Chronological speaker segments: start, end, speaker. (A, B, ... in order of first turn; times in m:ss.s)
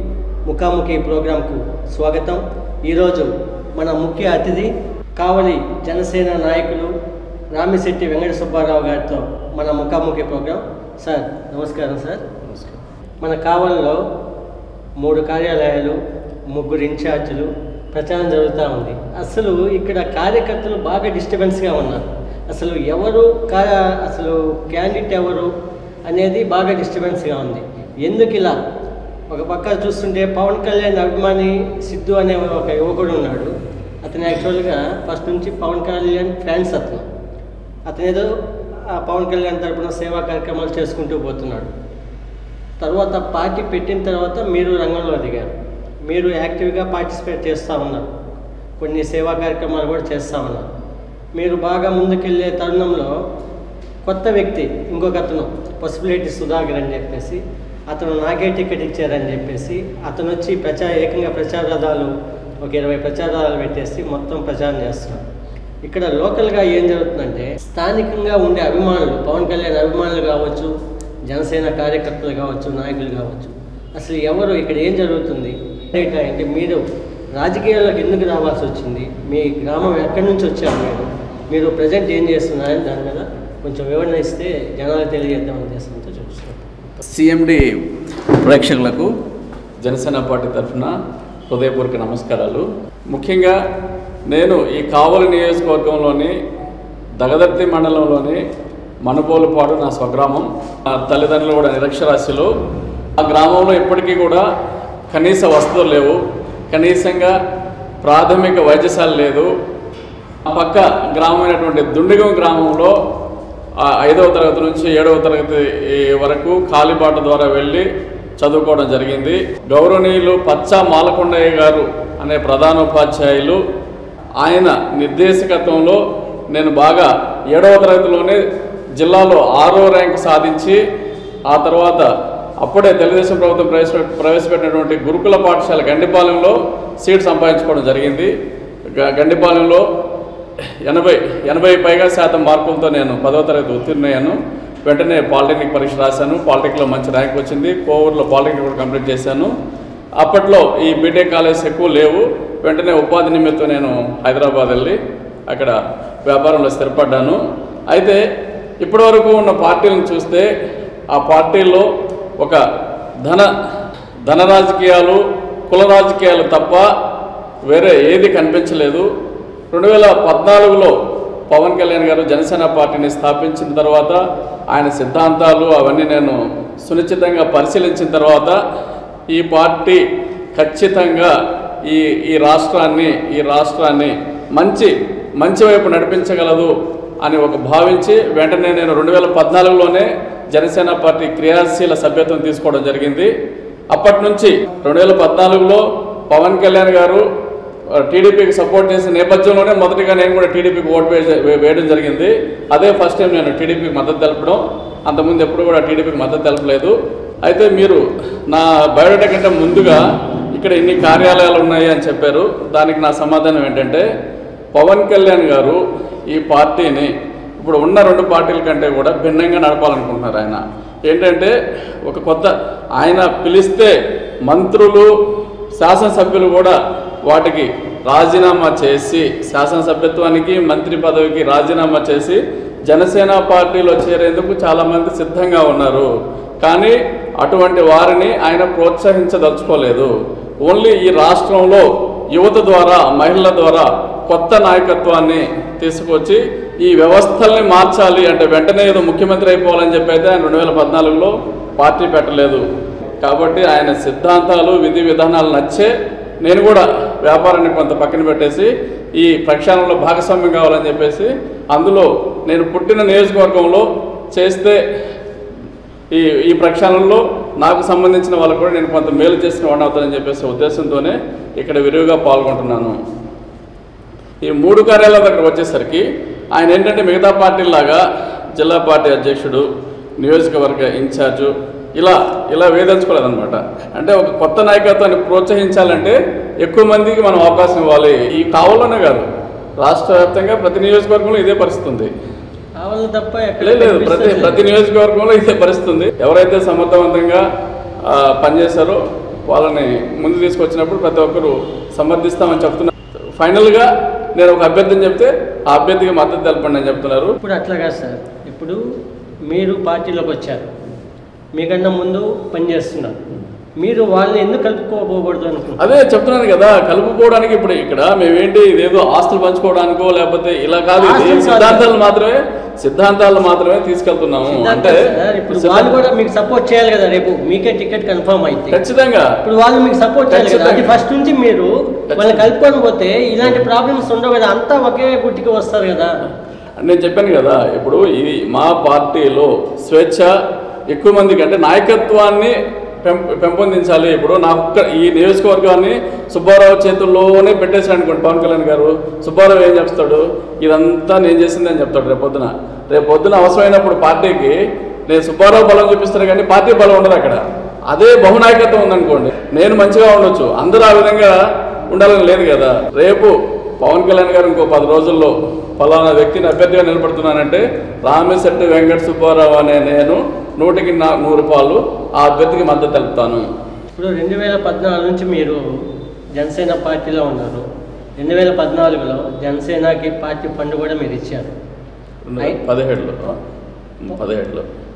0:00.4-0:06.9 A
0:07.5-0:12.2 A
0:12.5-0:12.7 B
0:13.2-0:14.0 A
0:15.0-0:16.0 A
0:16.5-0:25.5 A
0:26.1-0:28.6 A
0:29.3-0:37.0 A
0:37.9-0:38.3 A
0:38.9-0:41.7 A
0:42.8-0:45.5 A
0:46.1-0:48.1 A
0:48.8-0:50.7 A
0:51.4-0:53.1 A
0:54.0-1:02.1 A
1:02.6-1:05.2 A
1:05.8-1:10.7 A
1:11.3-1:16.8 A
1:17.3-1:26.6 A
1:27.0-1:29.1 B
1:29.8-1:31.0 B
1:31.5-1:33.6 B
1:34.3-1:36.4 B
1:37.2-1:38.4 B
1:39.0-1:42.5 B
1:43.2-1:44.5 B
1:45.1-1:47.4 B
1:48.0-1:49.5 B
1:50.4-1:53.0 B
1:53.8-2:03.6 B
2:04.4-2:08.4 B
2:09.0-2:10.8 B
2:11.5-2:12.1 B
2:12.6-2:18.3 B
2:18.9-2:19.8 B
2:20.8-2:29.5 B
2:30.2-2:35.0 B
2:35.5-2:38.2 B
2:38.8-2:40.5 B
2:41.1-2:41.9 B
2:43.2-2:43.5 B
2:44.2-2:46.9 B
2:47.7-2:49.1 B
2:49.7-2:51.0 B
2:51.5-2:54.2 B
2:54.7-2:58.6 B
2:59.3-3:13.3 B
3:13.9-3:17.2 B
3:18.0-3:30.0 B
3:30.5-3:34.1 B
3:34.7-3:35.8 B
3:36.3-3:43.9 B
3:44.4-3:45.1 B
3:45.8-3:56.1 B
3:56.6-4:00.1 B
4:00.6-4:12.6 B
4:13.2-4:15.9 B
4:16.4-4:24.8 B
4:26.1-4:33.0 B
4:34.4-4:38.0 B
4:38.6-4:39.7 B
4:40.2-4:49.2 B
4:49.8-4:52.1 B
4:52.8-4:54.6 A
4:53.6-4:57.4 B
4:58.0-5:07.4 B
5:07.4-5:08.8 A
5:09.5-5:10.7 A
5:11.6-5:13.2 A
5:13.8-5:15.9 A
5:15.8-5:26.0 B
5:21.0-5:21.8 A
5:24.4-5:28.8 A
5:28.7-5:29.3 B
5:29.4-5:36.1 A
5:30.3-5:31.0 B
5:32.1-5:32.4 B
5:36.8-5:40.3 B
5:40.9-6:13.4 B
6:13.9-6:15.6 A
6:16.4-6:17.6 A
6:18.2-6:21.5 A
6:22.3-6:23.4 B
6:24.0-6:24.6 B